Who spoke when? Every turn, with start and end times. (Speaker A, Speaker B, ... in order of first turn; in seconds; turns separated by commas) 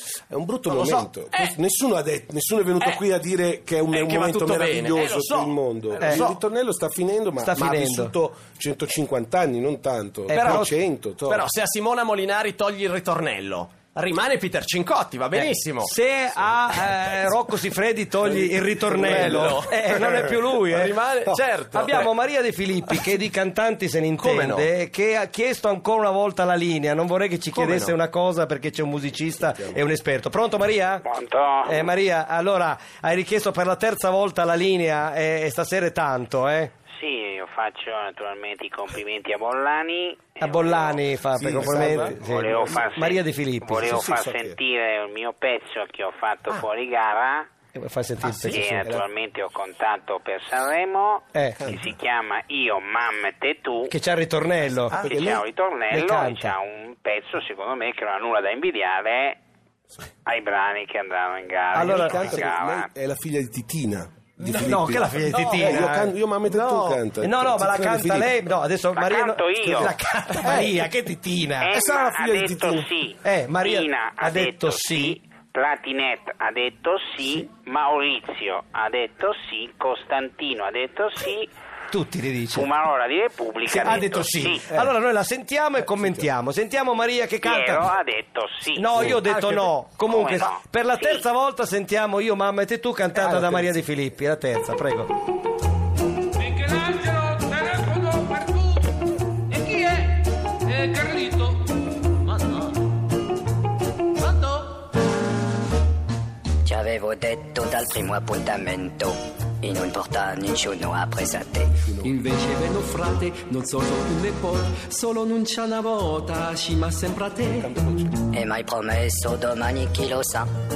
Speaker A: 0.3-11.5, Speaker B: 0.7-1.6, Speaker B: 3.9-6.4, Speaker C: 6.0-6.3, Speaker C: 7.4-8.1, Speaker C: 10.3-10.7, Speaker B: 10.3-10.7, Speaker B: 11.2-15.9, Speaker C: 15.3-31.1, Speaker B: 18.2-22.1, Speaker A: 19.1-19.5, Speaker B: 24.2-24.7, Speaker B: 27.5-28.0, Speaker A: 29.5-29.8, Speaker D: 31.0-31.9, Speaker C: 31.6-36.7, Speaker D: 37.0-41.0, Speaker C: 40.4-44.1, Speaker A: 41.4-42.9, Speaker D: 41.7-47.5, Speaker A: 43.8-44.6, Speaker C: 47.7-48.8, Speaker D: 48.4-53.9, Speaker A: 48.5-49.0, Speaker C: 51.3-51.6, Speaker C: 53.9-55.0, Speaker A: 54.9-55.4, Speaker D: 55.0-59.4, Speaker C: 55.9-56.5, Speaker D: 60.2-62.9, Speaker C: 61.7-62.5, Speaker A: 61.8-68.4, Speaker B: 64.5-64.7, Speaker C: 64.6-66.1, Speaker B: 65.3-65.9, Speaker B: 66.5-67.0, Speaker C: 67.2-71.7, Speaker D: 68.9-69.9, Speaker A: 69.8-70.8, Speaker B: 70.4-70.7, Speaker D: 71.6-81.5, Speaker A: 71.7-72.9, Speaker C: 73.2-75.2, Speaker C: 81.9-82.7, Speaker D: 82.5-84.7, Speaker C: 83.7-87.9, Speaker A: 85.9-86.3, Speaker D: 87.4-89.0, Speaker C: 88.8-95.1, Speaker B: 89.0-89.7, Speaker D: 90.0-91.2, Speaker A: 93.3-93.7, Speaker E: 106.6-111.8, Speaker A: 111.8-112.2, Speaker F: 112.0-117.7, Speaker A: 117.6-118.2, Speaker E: 118.3-120.5